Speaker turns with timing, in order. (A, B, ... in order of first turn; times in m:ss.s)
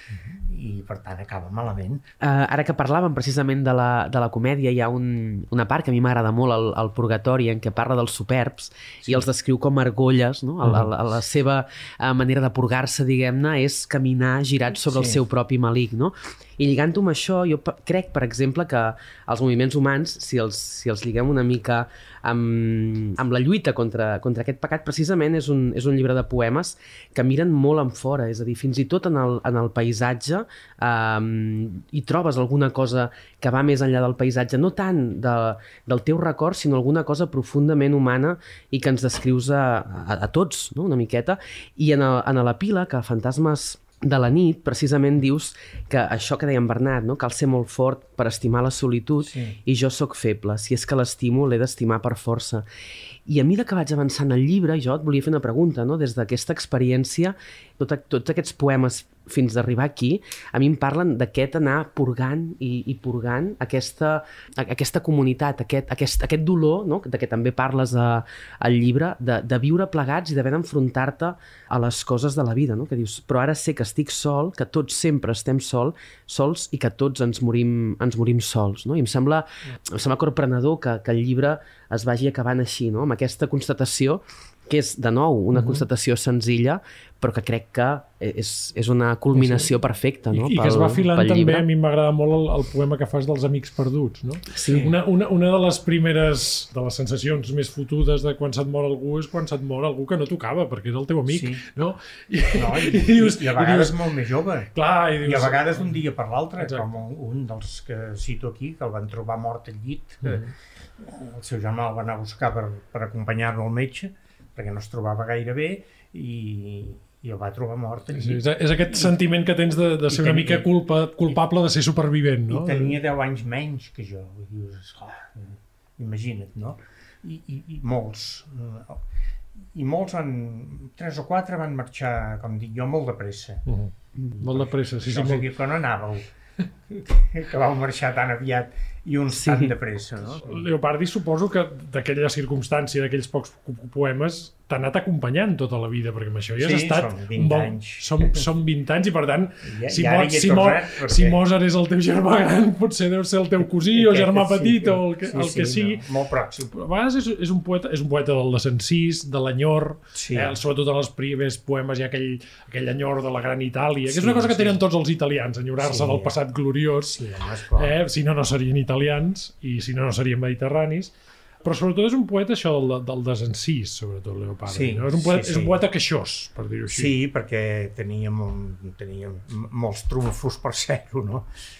0:00.4-0:02.0 A
0:02.2-0:52.6 B
0:10.6-0:10.9 C
0:14.9-0:15.2 A
0:49.2-0:49.6 A
0:53.2-1:31.6 B
1:25.5-1:25.8 C
1:29.3-1:29.7 C
1:30.3-1:44.0 C
1:34.5-1:34.9 B
1:34.6-1:34.9 A
1:41.3-1:41.6 A
1:42.5-1:59.2 A
1:44.7-1:45.7 C
1:50.2-1:50.5 C
1:58.1-2:02.9 C
2:00.1-2:00.7 A
2:02.5-2:09.0 A
2:09.7-2:13.6 A
2:13.6-2:15.4 C
2:14.4-2:16.3 A
2:16.9-2:20.6 A
2:19.3-2:19.7 B
2:20.3-2:36.0 C
2:26.6-2:28.4 A
2:29.6-2:31.4 A
2:33.9-2:36.7 A
2:36.7-2:47.2 C
2:40.1-2:40.6 A
2:44.1-2:44.8 A
2:45.8-2:46.4 A
2:47.1-2:47.9 A
2:47.8-2:51.1 C
2:51.6-2:57.1 C
2:54.7-2:55.8 A
2:56.9-3:01.5 A